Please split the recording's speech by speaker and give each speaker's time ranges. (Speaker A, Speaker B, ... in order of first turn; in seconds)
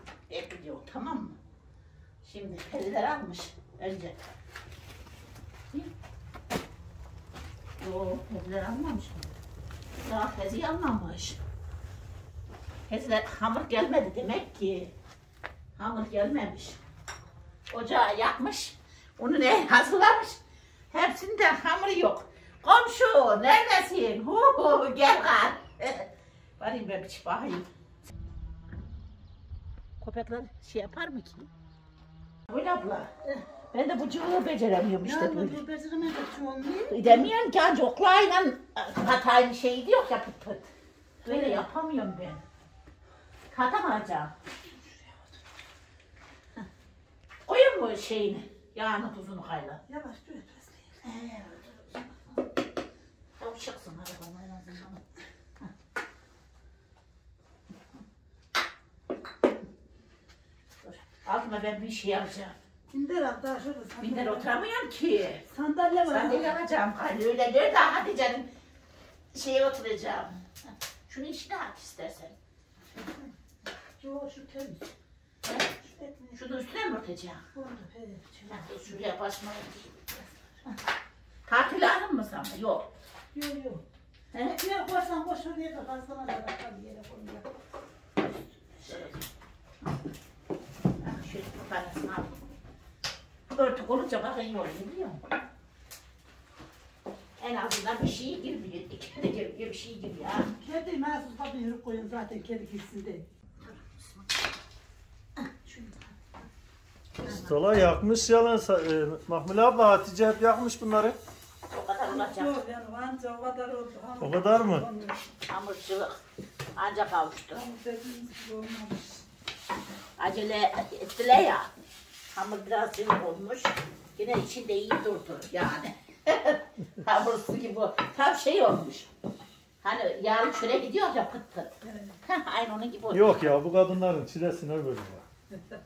Speaker A: 0.3-1.4, 2.2-4.3, 7.8-9.3, 10.0-11.4, 12.9-14.9, 15.8-16.8, 17.7-20.4, 20.9-27.7, 30.0-31.5, 32.5-33.1, 33.7-35.6, 36.9-40.7, 41.2-42.4, 43.5-44.3, 47.5-49.8, 51.0-52.1, 53.4-55.0, 60.8-62.5, 64.0-65.4, 66.0-68.5, 69.3-70.4, 71.1-72.3, 75.4-75.7, 76.3-77.4, 78.5-80.1, 81.4-82.9, 84.3-84.6, 88.8-89.3, 91.0-92.3, 93.5-95.2, 97.4-100.5, 103.6-104.2, 105.4-106.2, 111.7-112.5, 115.5-116.2, 116.8-117.6, 120.2-121.7, 122.3-129.1, 129.8-133.4
Speaker B: 35.0-37.3, 41.2-41.6, 49.9-50.9, 62.9-64.5, 65.5-66.5, 74.0-74.9, 75.8-76.4, 77.5-79.0, 83.3-83.8, 84.6-87.5, 100.5-103.2, 112.0-115.2, 117.5-119.2, 131.8-132.2
Speaker C: 107.2-111.2, 114.2-114.9, 133.1-135.2